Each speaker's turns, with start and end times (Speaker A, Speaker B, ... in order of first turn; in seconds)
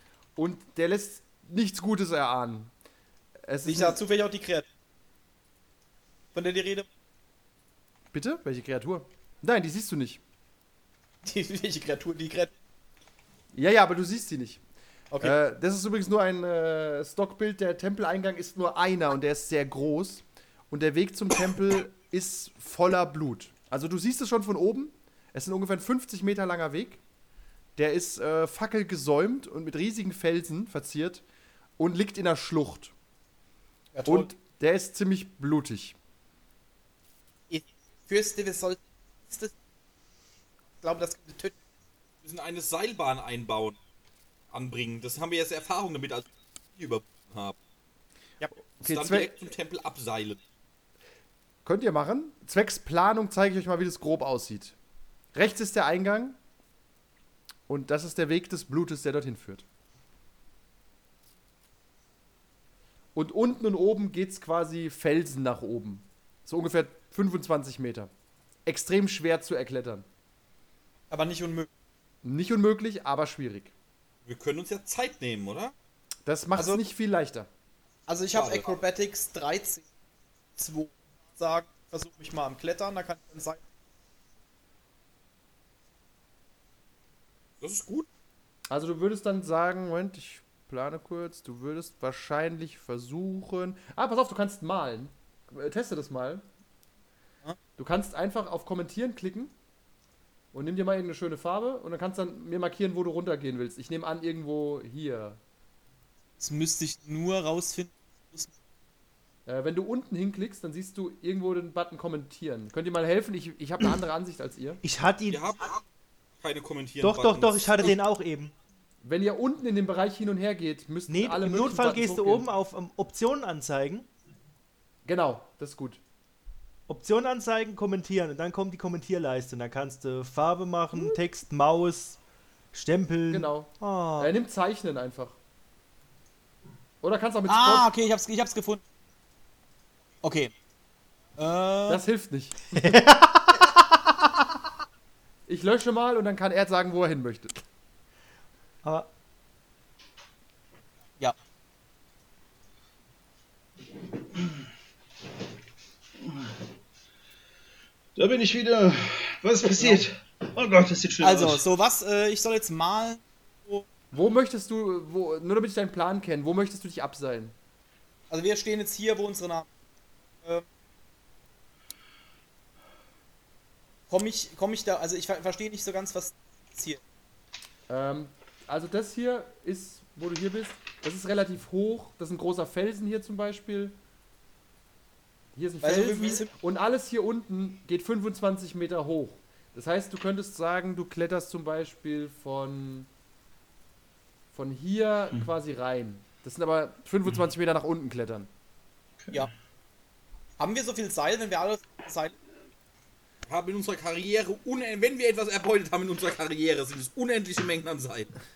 Speaker A: 0.3-2.7, 3.4-4.0, 8.1-10.2, 13.5-14.6, 15.2-27.0, 27.8-31.2, 31.8-32.9, 34.0-36.0, 48.8-49.3, 51.6-54.8, 55.3-56.4, 57.7-59.6, 63.1-68.1, 68.7-70.0, 72.2-73.7, 76.2-77.5, 88.7-96.4, 97.8-99.5, 100.5-105.4, 109.5-114.8, 119.0-122.5, 125.0-126.0, 133.3-135.4, 137.0-137.9, 141.9-143.1, 145.4-147.6, 164.1-167.5, 177.9-184.0, 185.5-193.1, 194.5-198.5
Speaker B: 3.6-4.7, 6.3-6.9, 11.2-12.5, 15.1-15.4, 33.9-34.3, 37.5-39.5, 40.8-41.5, 71.1-71.7, 76.5-76.8, 78.1-79.8, 80.6-83.6, 106.4-108.5, 137.5-138.8, 140.2-140.5, 141.4-142.0, 161.2-163.8, 168.3-169.7, 174.1-177.0, 185.8-186.5, 200.6-202.3
Speaker C: 42.2-43.8, 44.5-47.6, 48.8-50.4, 74.2-75.7, 78.3-78.8, 87.6-88.1, 115.3-115.8, 116.4-117.9, 203.5-208.3
Speaker D: 114.8-115.4, 117.0-118.5, 121.1-124.1, 126.9-132.2, 132.7-134.3, 142.7-143.9
Speaker E: 158.2-161.6, 199.2-199.5